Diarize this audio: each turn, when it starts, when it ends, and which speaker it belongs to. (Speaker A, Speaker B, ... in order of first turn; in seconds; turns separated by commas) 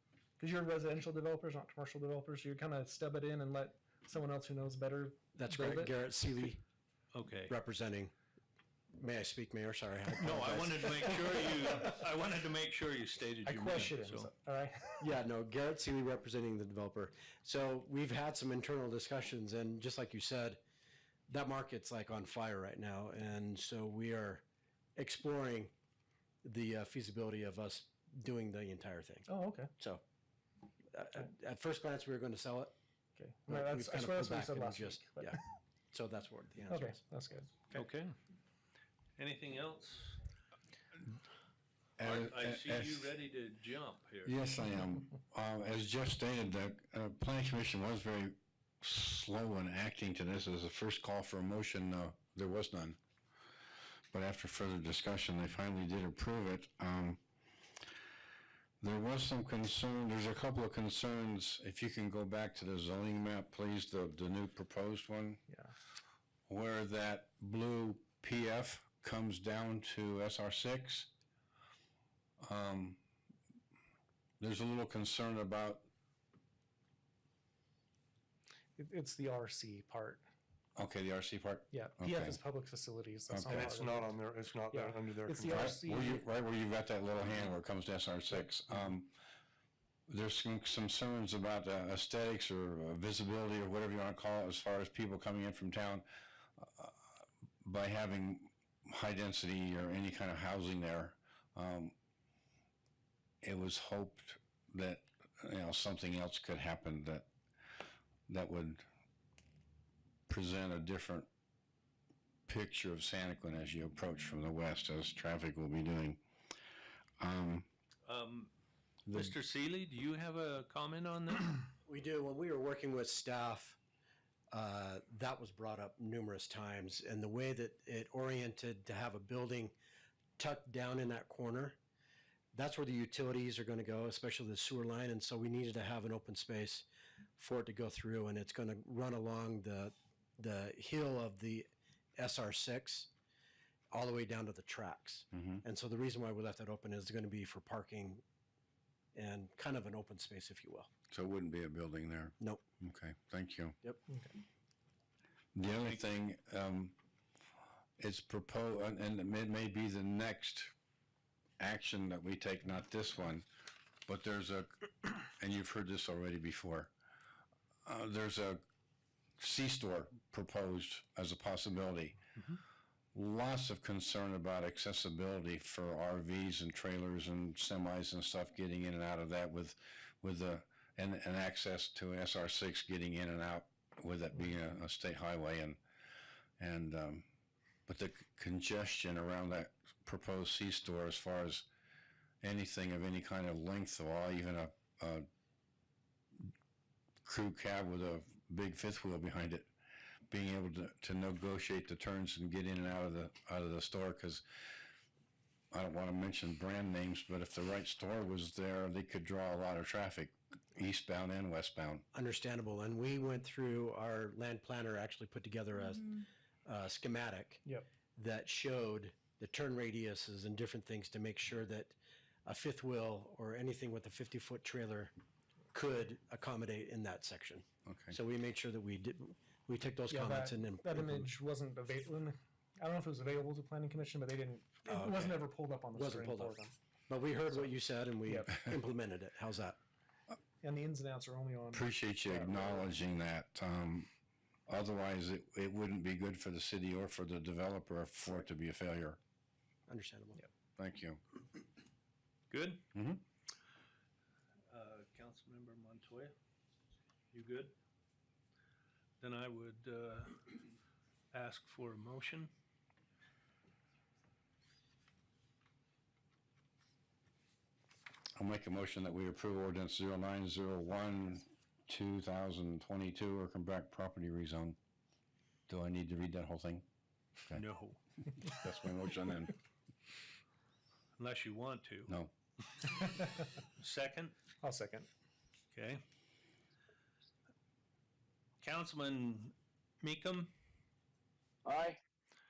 Speaker A: 0.4-5.9, Speaker B: 5.3-6.6, Speaker C: 7.1-7.5, Speaker B: 7.5-8.1, Speaker B: 8.9-11.8, Speaker C: 10.2-14.3, Speaker A: 13.4-15.1, Speaker B: 15.0-20.6, Speaker B: 21.3-24.4, Speaker B: 24.9-25.7, Speaker B: 26.4-29.2, Speaker A: 29.3-29.7, Speaker B: 30.9-32.7, Speaker A: 33.1-35.4, Speaker B: 33.5-35.4, Speaker B: 35.9-37.0, Speaker A: 36.7-37.8, Speaker C: 37.7-38.1, Speaker C: 39.2-40.2, Speaker D: 42.0-43.1, Speaker C: 42.0-44.3, Speaker D: 44.2-53.0, Speaker D: 54.1-57.2, Speaker D: 58.8-65.4, Speaker D: 66.5-71.1, Speaker D: 72.4-73.0, Speaker D: 74.4-75.9, Speaker A: 78.8-80.2, Speaker D: 80.8-82.4, Speaker A: 81.7-84.0, Speaker D: 83.3-83.7, Speaker E: 83.5-85.7, Speaker A: 84.7-86.2, Speaker D: 85.5-89.1, Speaker D: 90.1-96.0, Speaker D: 96.6-97.0, Speaker D: 97.6-101.9, Speaker D: 103.4-107.3, Speaker D: 108.3-108.8, Speaker D: 110.3-111.3, Speaker D: 112.5-116.2, Speaker D: 117.2-117.7, Speaker C: 118.0-118.5, Speaker D: 119.1-119.3, Speaker C: 119.1-121.7, Speaker B: 121.8-123.8, Speaker B: 124.5-129.7, Speaker B: 130.4-131.8, Speaker B: 132.5-136.8, Speaker B: 137.4-143.1, Speaker B: 143.9-148.2, Speaker D: 145.3-145.6, Speaker B: 149.1-150.9, Speaker D: 151.1-153.8, Speaker D: 155.5-156.9, Speaker D: 158.0-160.7, Speaker D: 161.6-163.4, Speaker D: 164.1-166.9, Speaker D: 167.8-168.6, Speaker D: 169.4-172.2, Speaker D: 173.1-185.8, Speaker D: 186.6-187.2, Speaker D: 187.9-191.7, Speaker D: 192.4-195.2, Speaker D: 197.2-199.7, Speaker D: 200.3-204.4, Speaker D: 205.7-212.0, Speaker B: 212.1-217.6, Speaker B: 218.2-221.9, Speaker B: 222.4-225.1, Speaker B: 225.7-231.3, Speaker D: 227.8-228.2, Speaker A: 230.1-236.8, Speaker B: 234.8-239.8, Speaker A: 238.2-238.5, Speaker A: 240.6-242.8, Speaker D: 241.7-244.1, Speaker D: 244.7-249.2, Speaker B: 249.9-250.4, Speaker D: 250.8-251.2, Speaker C: 252.5-252.8, Speaker D: 252.9-253.2, Speaker C: 254.7-256.3, Speaker C: 257.3-257.7, Speaker C: 259.2-260.6, Speaker C: 261.3-262.5, Speaker D: 268.4-274.8, Speaker D: 275.7-276.9, Speaker C: 277.5-278.0, Speaker D: 278.3-279.6, Speaker C: 281.2-282.1, Speaker D: 282.1-282.3, Speaker C: 283.8-284.4, Speaker A: 284.6-285.1, Speaker C: 285.7-286.0, Speaker C: 288.6-290.5